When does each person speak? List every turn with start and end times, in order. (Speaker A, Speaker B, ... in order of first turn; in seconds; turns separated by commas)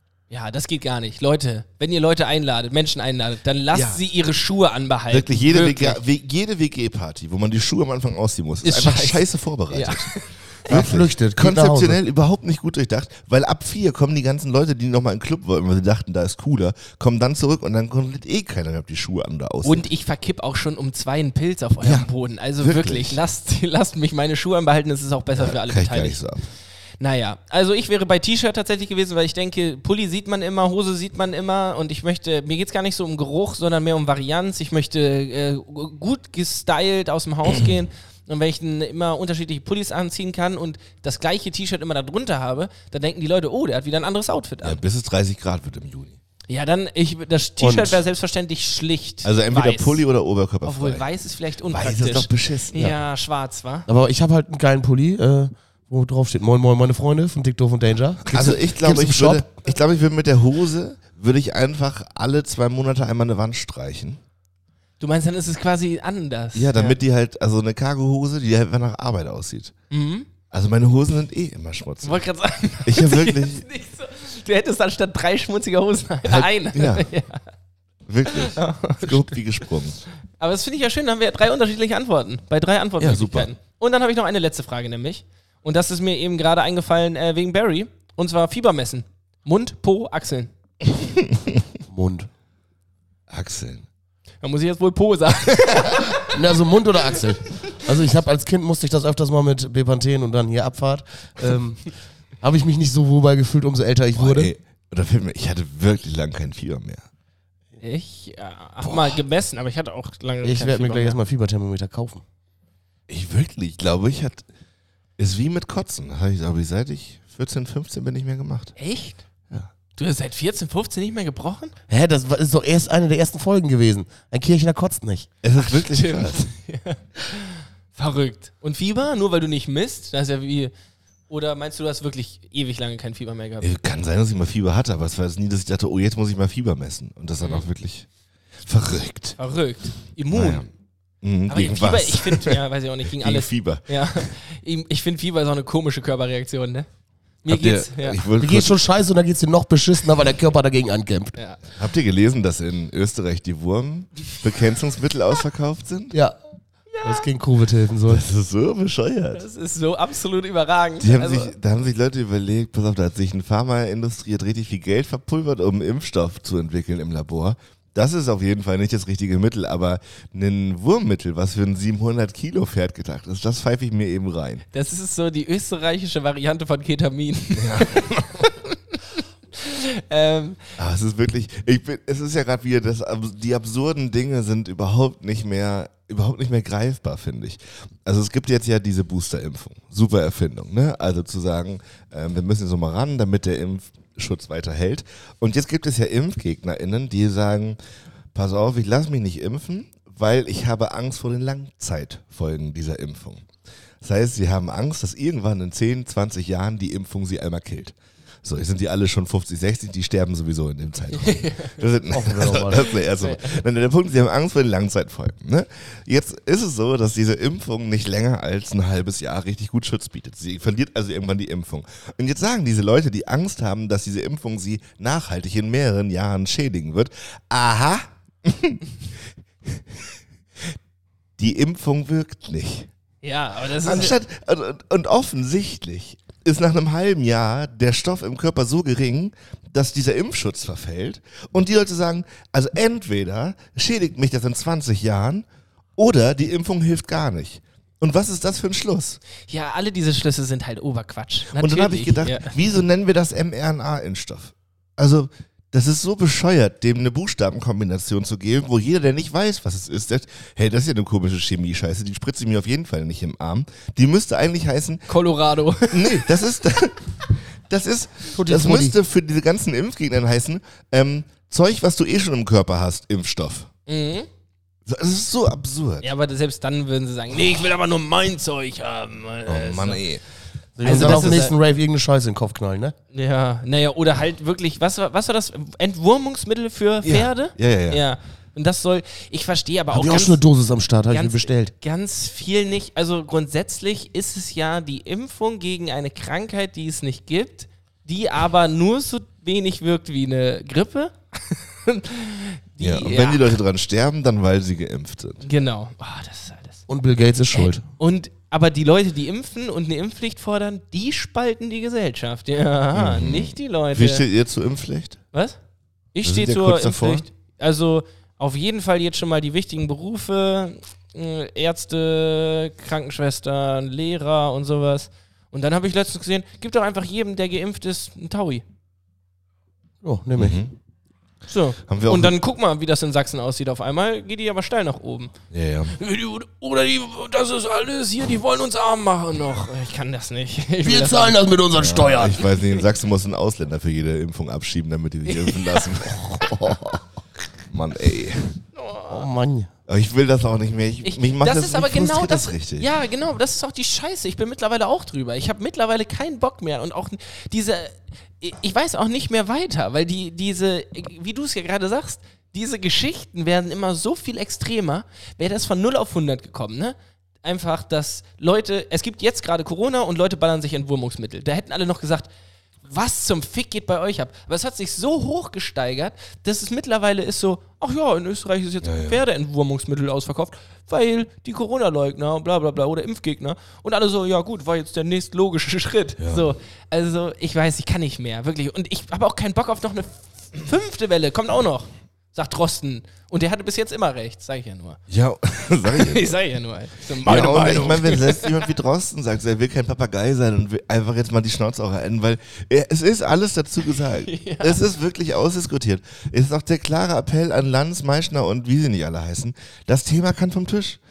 Speaker A: 0.3-6.0, Speaker B: 3.7-4.0, Speaker B: 5.1-10.1, Speaker A: 8.6-10.7, Speaker B: 10.7-19.8, Speaker C: 10.7-12.0, Speaker A: 19.6-26.2, Speaker B: 21.8-23.2, Speaker B: 25.3-26.4, Speaker A: 27.0-44.8, Speaker B: 44.6-46.2, Speaker A: 46.5-50.0, Speaker C: 47.6-48.0, Speaker B: 49.2-51.0, Speaker A: 50.6-53.9, Speaker B: 51.7-52.9, Speaker C: 53.9-59.5, Speaker B: 58.2-64.2, Speaker A: 65.0-67.0, Speaker B: 66.5-69.7, Speaker A: 69.9-70.3, Speaker B: 70.5-72.2, Speaker A: 72.0-77.4, Speaker B: 72.8-73.6, Speaker B: 76.2-77.1, Speaker B: 78.0-80.0, Speaker A: 78.3-79.4, Speaker A: 80.4-90.5, Speaker B: 83.0-83.5, Speaker B: 91.1-91.6, Speaker C: 91.9-92.3, Speaker B: 93.3-93.8, Speaker A: 94.4-96.2, Speaker C: 96.2-104.5, Speaker B: 104.1-107.0, Speaker A: 107.8-111.2, Speaker B: 108.8-109.2, Speaker C: 110.4-112.2, Speaker B: 113.1-114.5, Speaker B: 115.2-118.7, Speaker A: 118.8-119.2, Speaker A: 119.9-121.7, Speaker C: 121.9-125.3, Speaker B: 125.4-126.5, Speaker A: 125.6-130.7, Speaker A: 131.3-133.7, Speaker B: 133.6-138.1, Speaker A: 137.4-137.7, Speaker B: 138.6-139.4, Speaker A: 139.4-140.7, Speaker B: 140.3-140.7, Speaker B: 141.2-142.6, Speaker A: 141.5-146.9, Speaker B: 143.1-144.3, Speaker A: 147.4-148.2, Speaker B: 147.4-148.8, Speaker C: 148.4-151.4, Speaker B: 151.8-156.1, Speaker A: 156.9-157.2, Speaker C: 157.0-158.2, Speaker B: 158.1-159.4, Speaker A: 159.3-161.5, Speaker B: 161.0-174.6, Speaker A: 174.7-180.7, Speaker B: 177.5-178.5, Speaker B: 180.8-197.8, Speaker B: 198.3-203.4, Speaker B: 204.0-228.8, Speaker A: 211.1-211.8, Speaker C: 212.1-212.9, Speaker A: 212.9-213.6, Speaker B: 229.7-230.1, Speaker B: 231.4-232.9, Speaker A: 233.2-234.2, Speaker B: 233.8-245.4, Speaker B: 246.0-249.2, Speaker A: 249.5-252.6, Speaker B: 251.5-265.1, Speaker A: 265.1-266.2, Speaker B: 265.9-267.0, Speaker B: 267.7-273.7, Speaker C: 268.3-268.9, Speaker A: 273.9-274.3, Speaker B: 274.9-276.1, Speaker A: 276.0-280.0, Speaker B: 279.5-280.2, Speaker C: 280.8-282.9, Speaker A: 280.8-281.5, Speaker B: 280.9-281.3, Speaker A: 283.1-290.4, Speaker B: 287.0-288.0, Speaker C: 289.9-291.7, Speaker A: 291.1-303.6, Speaker B: 302.8-305.4, Speaker A: 305.4-306.8, Speaker C: 306.9-307.8, Speaker A: 307.5-314.2, Speaker B: 312.9-315.2, Speaker A: 315.3-315.6, Speaker A: 316.1-328.6, Speaker B: 316.2-317.2, Speaker C: 330.0-330.6, Speaker B: 330.4-330.7, Speaker A: 331.5-335.3, Speaker B: 331.9-332.3, Speaker B: 335.5-335.9, Speaker A: 335.9-341.4, Speaker C: 340.8-342.4, Speaker B: 341.7-347.0, Speaker A: 342.4-342.8, Speaker A: 345.2-346.7, Speaker B: 347.7-348.6, Speaker A: 348.7-349.3, Speaker C: 349.1-349.7, Speaker B: 349.9-352.9, Speaker A: 351.0-372.3, Speaker A: 372.8-395.0, Speaker B: 378.8-379.2, Speaker B: 386.2-386.5, Speaker B: 395.1-396.4, Speaker A: 395.8-398.6, Speaker B: 397.2-411.0, Speaker A: 404.2-404.8